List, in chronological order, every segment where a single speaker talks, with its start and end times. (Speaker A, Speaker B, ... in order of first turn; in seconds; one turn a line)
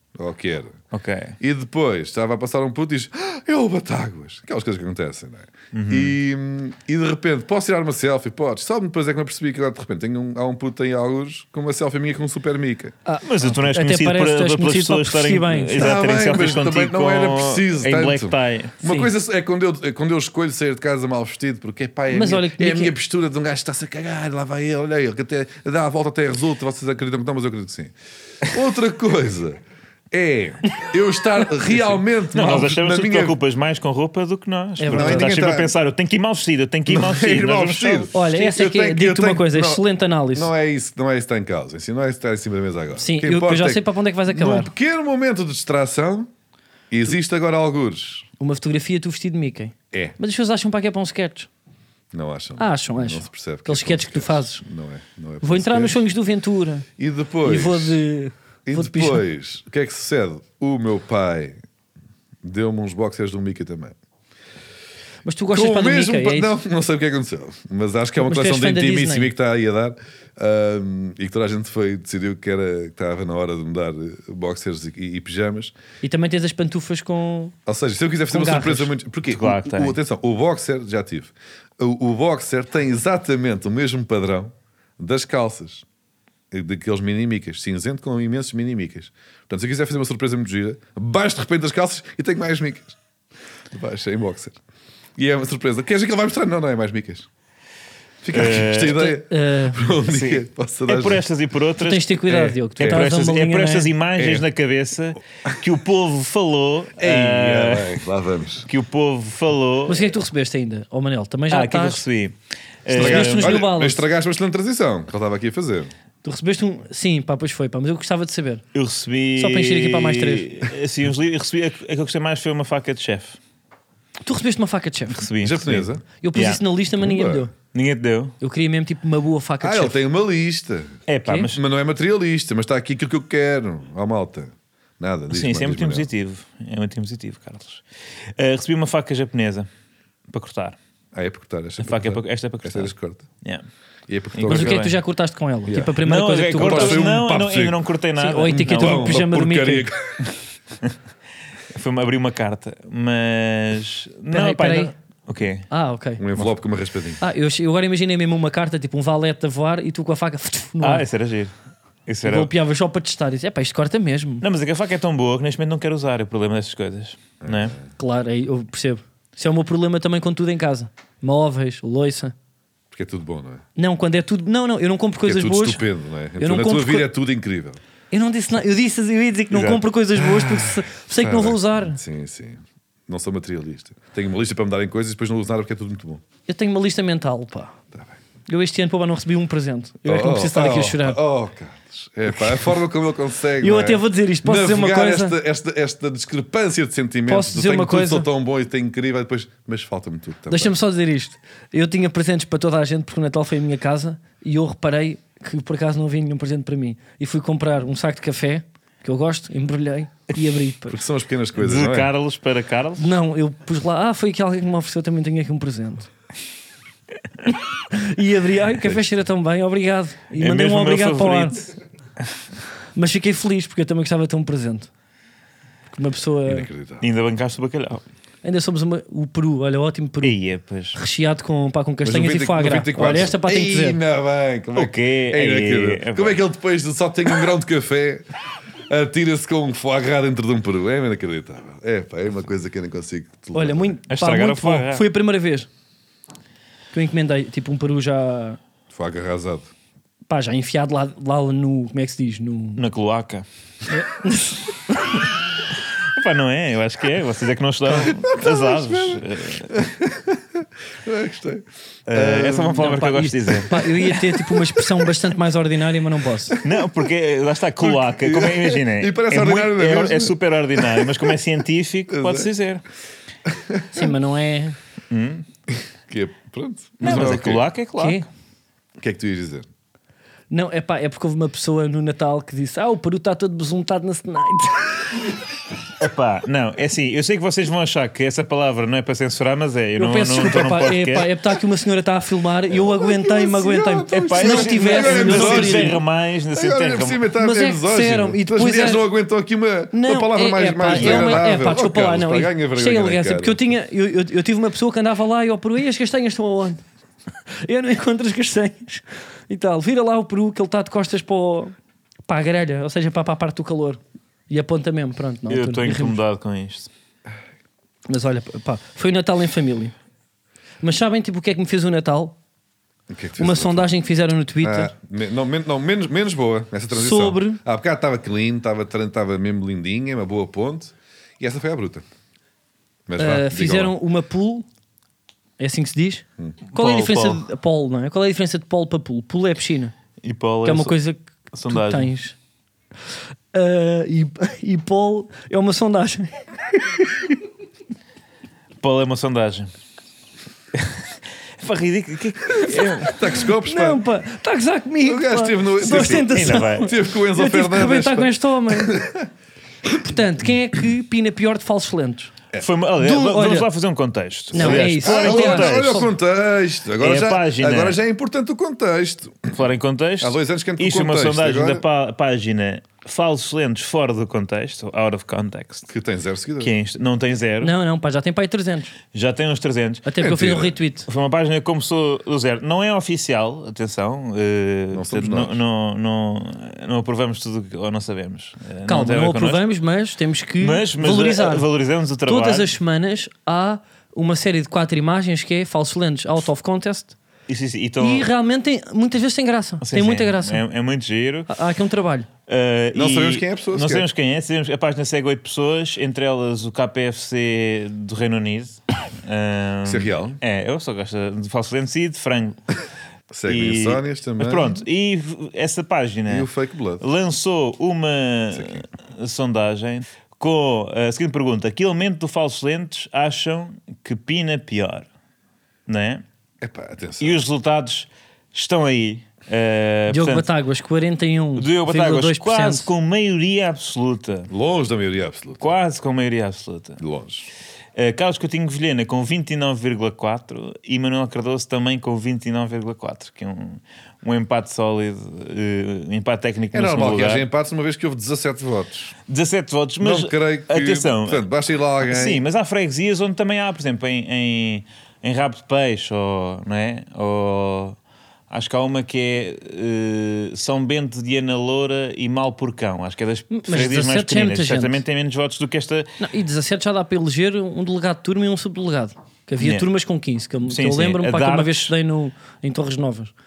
Speaker A: 0.1-0.8
Speaker B: 0.9-1.4
Speaker A: 1.4-12.9
Speaker B: 5.7-6.1
Speaker C: 13.1-15.9
Speaker B: 13.2-19.1
Speaker A: 15.8-29.6
Speaker C: 22.1-22.9
Speaker A: 30.1-33.4
Speaker B: 31.7-38.1
Speaker C: 34.8-35.4
Speaker A: 34.9-35.7
Speaker A: 36.9-46.3
Speaker C: 38.1-40.5
Speaker C: 43.0-44.7
Speaker A: 46.9-48.3
Speaker C: 48.4-51.5
Speaker A: 49.9-50.2
Speaker A: 52.1-56.0
Speaker C: 52.6-54.6
Speaker C: 55.4-56.9
Speaker A: 57.0-58.0
Speaker C: 57.4-59.2
Speaker A: 58.6-61.6
Speaker A: 62.4-63.9
Speaker C: 65.2-66.5
Speaker A: 65.5-75.7
Speaker C: 68.2-69.3
Speaker C: 76.0-77.5
Speaker A: 77.7-85.8
Speaker C: 78.3-78.9
Speaker B: 79.3-80.0
Speaker A: 86.5-93.0
Speaker A: 93.7-94.6
Speaker A: 95.2-97.3
Speaker A: 98.2-101.2
Speaker B: 98.3-99.1
Speaker C: 98.9-99.8
Speaker B: 100.1-108.0
Speaker C: 101.8-103.9
Speaker A: 104.2-104.4
Speaker A: 107.0-108.7
Speaker B: 108.7-110.1
Speaker C: 109.9-112.0
Speaker B: 111.5-113.5
Speaker A: 112.9-115.9
Speaker C: 113.0-114.0
Speaker C: 116.2-118.6
Speaker B: 118.7-123.4
Speaker C: 119.3-120.6
Speaker C: 124.2-125.2
Speaker B: 125.1-126.6
Speaker A: 125.4-126.0
Speaker C: 126.2-127.5
Speaker A: 127.0-127.4
Speaker B: 127.7-128.3
Speaker C: 128.4-130.0
Speaker A: 129.6-136.1
Speaker B: 131.1-131.6
Speaker B: 135.3-137.8
Speaker B: 138.4-139.7
Speaker B: 140.3-140.8
Speaker A: 141.1-143.2
Speaker B: 141.8-143.6
Speaker A: 144.1-144.8
Speaker B: 144.3-145.0
Speaker C: 144.5-147.1
Speaker A: 145.7-146.0
Speaker B: 146.0-149.2
Speaker A: 146.5-147.8
Speaker C: 148.2-149.9
Speaker A: 148.5-150.3
Speaker B: 151.7-155.7
Speaker C: 154.3-154.9
Speaker C: 155.7-156.2
Speaker A: 156.2-157.2
Speaker C: 157.2-161.0
Speaker B: 160.8-161.5
Speaker B: 162.1-162.5
Speaker C: 162.2-164.4
Speaker B: 164.4-167.7
Speaker A: 167.4-167.8
Speaker C: 168.0-172.3
Speaker A: 172.9-173.6
Speaker C: 173.8-175.8
Speaker A: 175.2-177.8
Speaker C: 176.4-177.1
Speaker C: 178.1-182.0
Speaker A: 179.5-186.2
Speaker C: 186.5-187.7
Speaker A: 187.9-188.2
Speaker C: 188.5-191.2
Speaker A: 190.1-200.7
Speaker C: 192.3-192.7
Speaker C: 193.6-195.3
Speaker C: 197.3-198.3
Speaker C: 200.5-211.0
Speaker A: 210.9-212.1
Speaker B: 211.6-213.1
Speaker C: 213.0-216.1
Speaker C: 217.5-221.6
Speaker B: 220.4-221.7
Speaker C: 222.9-224.9
Speaker C: 225.9-226.7
Speaker A: 226.5-227.0
Speaker B: 227.0-228.0
Speaker C: 228.4-230.4
Speaker B: 230.2-231.0
Speaker C: 230.9-234.0
Speaker A: 232.0-238.2
Speaker B: 234.7-236.4
Speaker A: 238.9-243.9
Speaker C: 243.5-245.7
Speaker B: 244.1-245.0
Speaker C: 246.9-248.6
Speaker A: 248.9-249.7
Speaker C: 250.3-252.8
Speaker B: 252.8-253.4
Speaker C: 253.9-254.7
Speaker B: 256.1-259.8
Speaker A: 257.9-265.2
Speaker B: 262.1-263.7
Speaker C: 262.8-266.6
Speaker A: 266.5-266.9
Speaker B: 266.6-272.8
Speaker A: 267.8-271.4
Speaker A: 272.1-272.5
Speaker A: 273.4-274.1
Speaker C: 273.9-274.8
Speaker B: 275.1-275.4
Speaker A: 275.7-277.7
Speaker B: 277.0-278.2
Speaker C: 278.0-278.2
Speaker A: 279.0-279.7
Speaker C: 280.5-285.2
Speaker B: 286.0-291.3
Speaker C: 290.0-296.0
Speaker A: 292.7-296.0
Speaker B: 294.1-297.2
Speaker A: 296.5-303.6
Speaker C: 297.3-299.0
Speaker C: 299.9-306.8
Speaker B: 300.9-301.4
Speaker C: 307.6-311.7
Speaker C: 312.3-316.2
Speaker B: 315.5-316.9
Speaker C: 318.1-319.9
Speaker C: 320.8-322.4
Speaker A: 323.1-323.9
Speaker C: 323.4-324.9
Speaker A: 324.6-332.0
Speaker C: 326.9-327.6
Speaker A: 333.1-333.9
Speaker C: 333.2-334.7
Speaker C: 335.6-339.9
Speaker B: 336.7-337.4
Speaker B: 340.2-340.9
Speaker C: 340.6-342.4
Speaker B: 341.5-342.1
Speaker C: 343.5-347.4
Speaker B: 348.8-349.7
Speaker B: 350.7-351.0
Speaker B: 351.6-353.2
Speaker C: 352.7-359.1
Speaker A: 353.0-354.0
Speaker A: 355.0-359.3
Speaker B: 355.9-356.9
Speaker C: 359.9-362.3
Speaker B: 362.6-366.1
Speaker C: 363.0-363.7
Speaker A: 364.5-369.6
Speaker C: 364.5-366.0
Speaker B: 367.0-368.0
Speaker B: 369.5-375.9
Speaker A: 370.2-371.8
Speaker A: 375.9-376.7
Speaker B: 376.6-377.7
Speaker C: 377.6-378.9
Speaker B: 379.1-380.3
Speaker C: 380.0-381.1
Speaker A: 380.2-380.7
Speaker B: 381.1-389.6
Speaker A: 384.9-385.5
Speaker C: 388.9-391.6
Speaker B: 390.6-392.7
Speaker C: 392.2-397.2
Speaker B: 397.5-398.3
Speaker C: 398.0-400.6
Speaker B: 399.8-401.5
Speaker C: 401.5-402.3
Speaker B: 402.5-412.6
Speaker A: 402.9-404.1
Speaker A: 409.8-410.4
Speaker A: 413.3-414.8
Speaker B: 413.5-416.5
Speaker A: 416.3-417.0
Speaker B: 417.0-425.1
Speaker A: 418.5-418.8
Speaker B: 425.9-426.2
Speaker A: 426.6-427.4
Speaker B: 427.2-430.5
Speaker C: 430.1-432.9
Speaker B: 431.6-434.5
Speaker A: 434.5-435.6
Speaker B: 435.6-437.0
Speaker A: 437.0-437.5
Speaker B: 437.9-447.4
Speaker A: 446.7-449.1
Speaker B: 449.3-451.4
Speaker A: 450.0-452.4
Speaker B: 452.0-457.9
Speaker B: 458.5-466.2
Speaker C: 463.5-465.0
Speaker C: 466.2-473.3
Speaker B: 469.6-469.9
Speaker B: 470.6-471.9